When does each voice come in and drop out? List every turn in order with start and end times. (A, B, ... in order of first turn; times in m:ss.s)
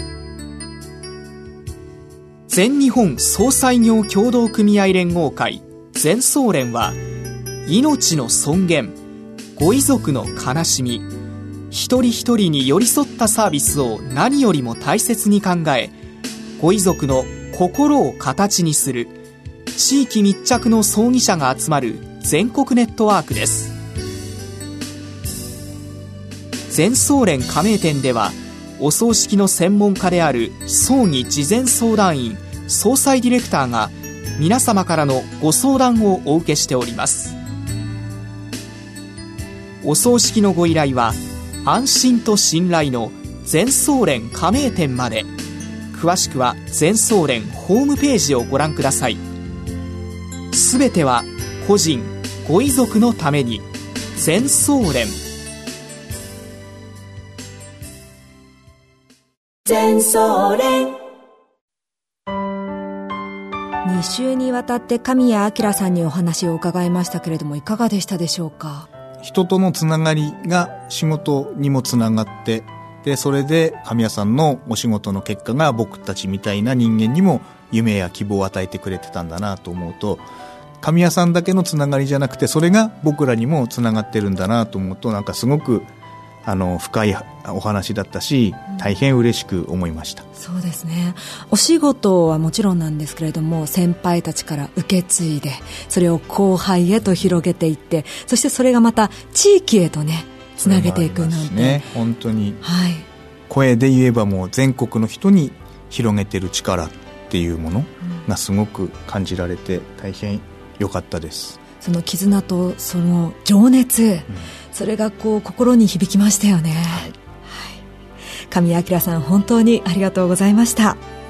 0:02.5-0:07.0 A
0:07.6-0:09.0 A
0:09.6-0:11.1 A
0:11.7-0:15.9 A
0:16.6-0:19.2 A
0:19.8-0:23.8 A
0:26.7-0:37.4 A
0:39.8-0:45.3 A
0:45.9-0:49.2 A
0:50.5-0:55.2 A
0:59.7-1:01.0 B
1:03.8-1:08.9 B
1:09.2-1:20.2 C
1:20.8-1:25.9 C
1:26.4-1:30.2 C
1:30.4-1:41.9 B
1:40.6-1:42.6 C
1:42.6-1:43.1 B
1:43.5-1:51.6 C
1:51.7-1:57.8 B
1:58.5-2:01.0 B